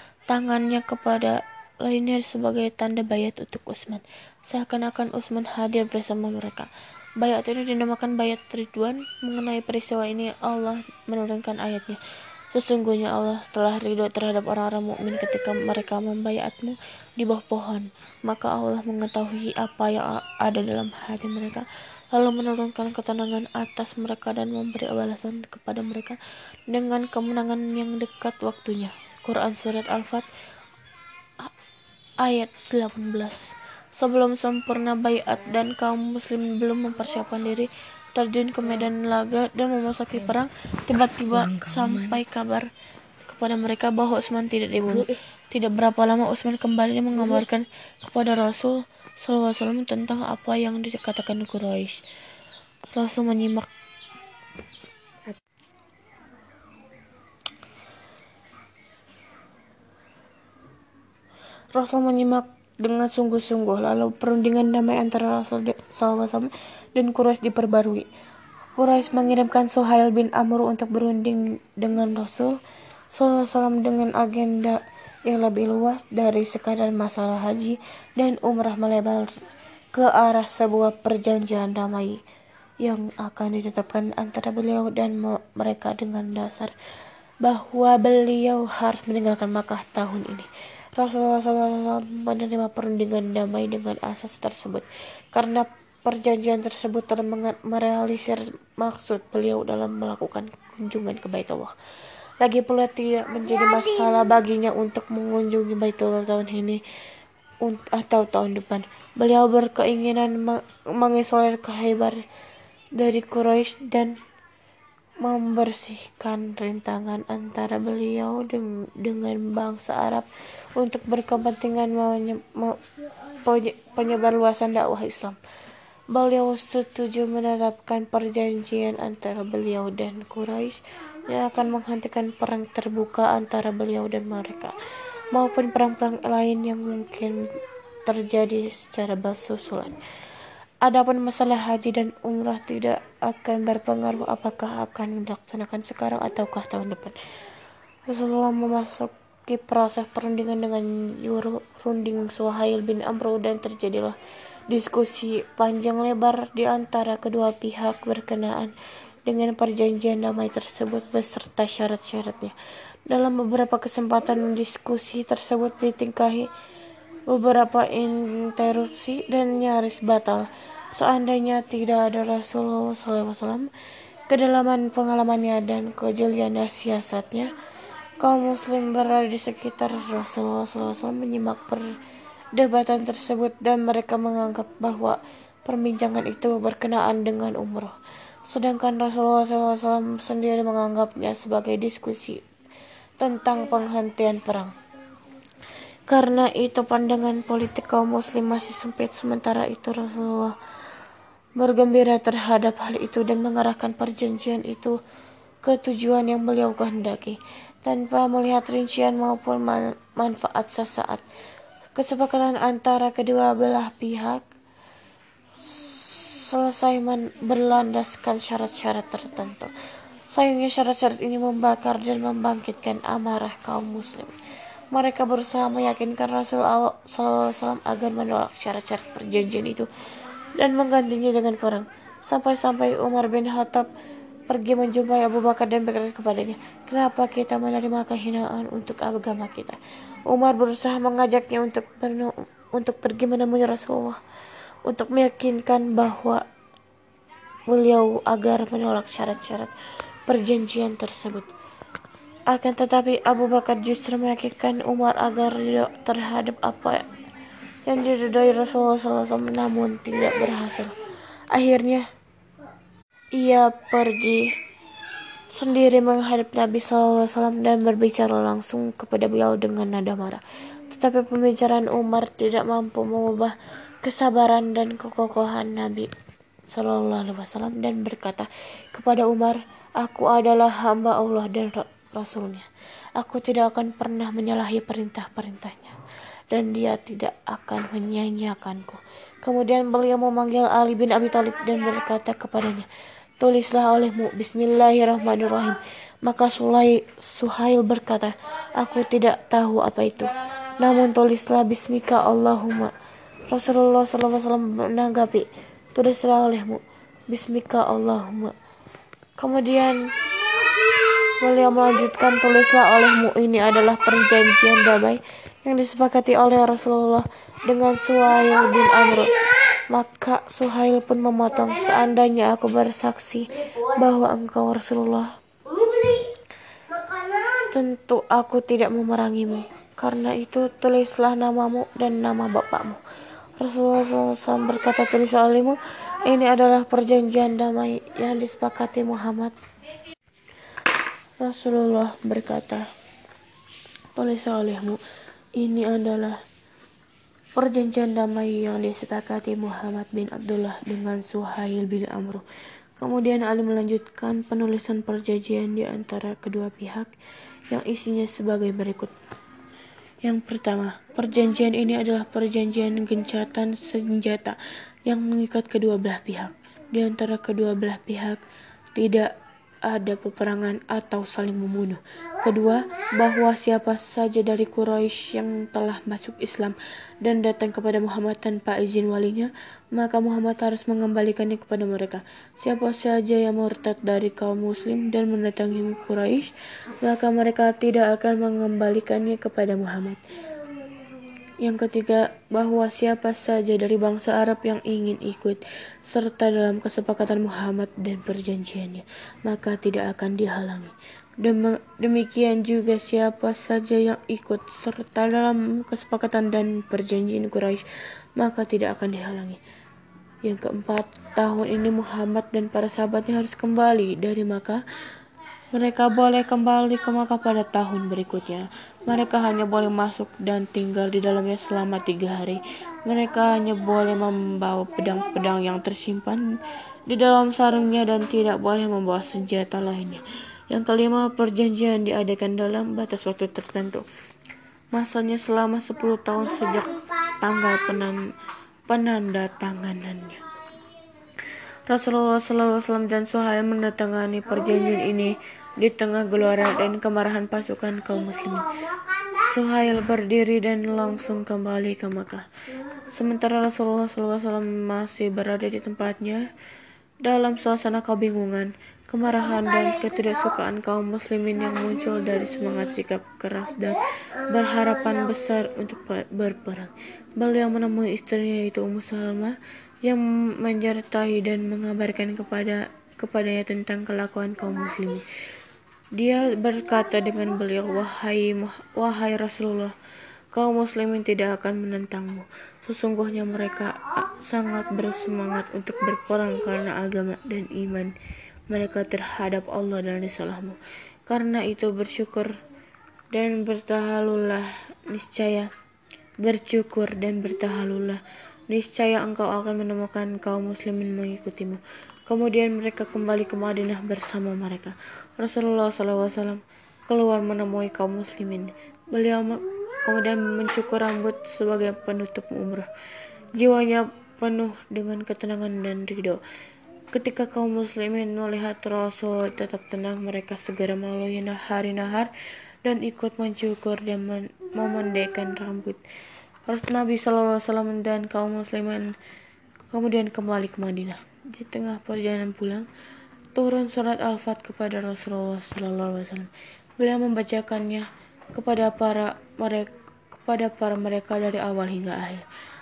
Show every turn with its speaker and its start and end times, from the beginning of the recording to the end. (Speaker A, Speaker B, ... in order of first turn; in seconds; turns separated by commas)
Speaker A: 0.3-12.0, Speaker A: 12.5-30.3, Speaker A: 32.2-42.7, Speaker A: 43.2-52.0, Speaker A: 52.9-53.7, Speaker A: 61.7-68.1, Speaker A: 68.7-72.6, Speaker A: 73.1-79.3, Speaker A: 79.9-82.2, Speaker A: 82.8-86.7, Speaker A: 87.4-101.7, Speaker A: 102.4-106.8, Speaker A: 107.6-112.2, Speaker A: 113.0-114.2, Speaker A: 115.2-122.8, Speaker A: 123.3-125.4, Speaker A: 126.1-134.7, Speaker A: 135.3-137.4, Speaker A: 138.1-140.0, Speaker A: 140.8-147.2, Speaker A: 148.1-154.2, Speaker A: 154.7-158.7, Speaker A: 159.2-162.5, Speaker A: 163.1-166.5, Speaker A: 167.3-173.7, Speaker A: 174.3-177.5, Speaker A: 178.2-181.9, Speaker A: 182.5-187.9, Speaker A: 188.5-192.4, Speaker A: 193.2-194.7, Speaker A: 196.1-200.6, Speaker A: 201.6-205.0, Speaker A: 205.6-211.2, Speaker A: 211.9-214.5, Speaker A: 215.6-219.7, Speaker A: 220.3-224.3, Speaker A: 224.9-229.9, Speaker A: 230.6-233.9, Speaker A: 234.5-244.2, Speaker A: 244.9-246.4, Speaker A: 247.7-249.7, Speaker A: 250.3-251.5, Speaker A: 252.5-257.1, Speaker A: 257.9-260.9, Speaker A: 261.5-262.1, Speaker A: 263.4-264.4, Speaker A: 265.5-276.1, Speaker A: 276.7-286.0, Speaker A: 286.5-292.9, Speaker A: 293.4-302.9, Speaker A: 303.5-308.5, Speaker A: 309.4-310.1, Speaker A: 311.4-319.3, Speaker A: 319.9-325.3, Speaker A: 327.6-333.0, Speaker A: 333.6-339.5, Speaker A: 341.4-342.9, Speaker A: 344.1-345.0, Speaker A: 345.6-346.4, Speaker A: 347.5-352.4, Speaker A: 353.0-357.1, Speaker A: 357.7-359.1, Speaker A: 360.2-368.4, Speaker A: 368.9-369.3, Speaker A: 369.8-386.5, Speaker A: 387.0-390.2, Speaker A: 391.6-407.8, Speaker A: 408.4-409.6, Speaker A: 410.4-414.8, Speaker A: 415.7-426.5, Speaker A: 427.1-434.0, Speaker A: 434.9-438.2, Speaker A: 438.9-440.4, Speaker A: 441.9-448.7, Speaker A: 449.2-452.4, Speaker A: 453.1-456.4, Speaker A: 457.2-475.2, Speaker A: 476.1-479.9, Speaker A: 480.5-488.1, Speaker A: 488.7-492.5, Speaker A: 493.3-495.7, Speaker A: 496.4-512.9, Speaker A: 513.5-516.4, Speaker A: 517.1-522.3, Speaker A: 522.8-526.0, Speaker A: 526.7-529.1, Speaker A: 529.9-532.9, Speaker A: 533.5-542.5